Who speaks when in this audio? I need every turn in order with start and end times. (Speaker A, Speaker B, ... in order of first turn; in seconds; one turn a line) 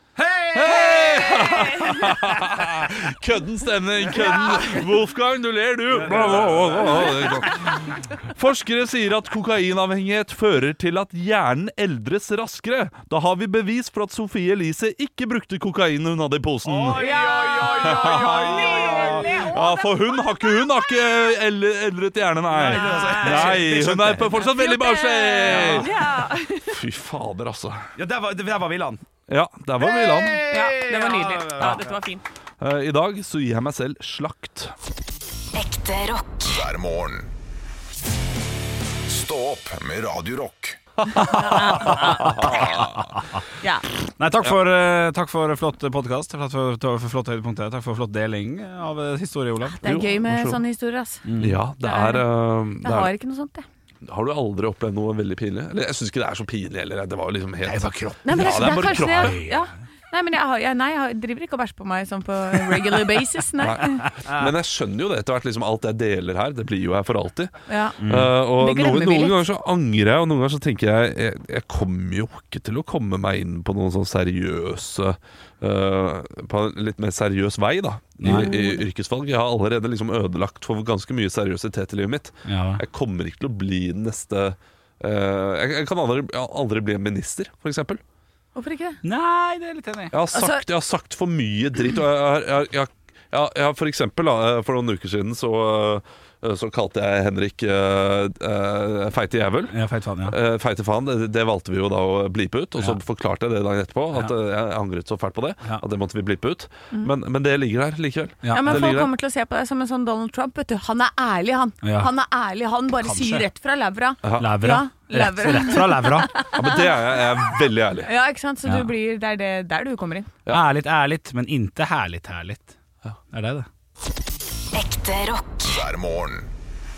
Speaker A: 0.1-2.9
Speaker B: 0.5-17.1
Speaker C: 0.7-2.2
Speaker A: 4.1-4.8
Speaker C: 4.2-4.8
Speaker A: 5.9-7.8
Speaker A: 16.6-19.6
Speaker C: 16.9-21.2
Speaker B: 17.6-25.9
Speaker A: 22.5-24.4
Speaker C: 22.6-26.8
Speaker A: 25.4-26.0
Speaker B: 26.6-27.9
Speaker A: 27.9-29.0
Speaker B: 29.3-30.5
Speaker A: 29.8-32.0
Speaker C: 30.5-32.2
Speaker B: 32.6-34.7
Speaker D: 35.5-36.6
Speaker E: 36.5-37.3
Speaker E: 39.0-40.8
Speaker C: 41.1-42.6
Speaker A: 41.9-42.3
Speaker E: 42.4-42.8
Speaker B: 42.5-42.8
Speaker C: 43.6-43.9
Speaker A: 44.2-49.8
Speaker C: 49.6-51.2
Speaker B: 49.8-50.6
Speaker A: 51.2-51.6
Speaker B: 51.4-53.1
Speaker C: 51.8-53.6
Speaker B: 54.0-59.4
Speaker A: 57.6-59.7
Speaker C: 58.2-64.1
Speaker B: 63.6-88.0
Speaker C: 67.7-69.4
Speaker A: 68.0-68.3
Speaker A: 78.2-78.5
Speaker C: 78.2-78.8
Speaker A: 82.5-82.8
Speaker C: 88.5-89.0
Speaker A: 89.0-90.1
Speaker B: 90.1-109.1
Speaker C: 90.3-90.6
Speaker A: 99.7-100.3
Speaker A: 108.4-108.9
Speaker C: 108.5-120.3
Speaker A: 111.8-112.1
Speaker A: 113.0-113.4
Speaker B: 114.2-114.7
Speaker A: 114.3-116.3
Speaker B: 116.5-118.1
Speaker A: 120.5-122.8
Speaker A: 123.3-123.7
Speaker D: 124.7-125.7
Speaker E: 125.7-126.5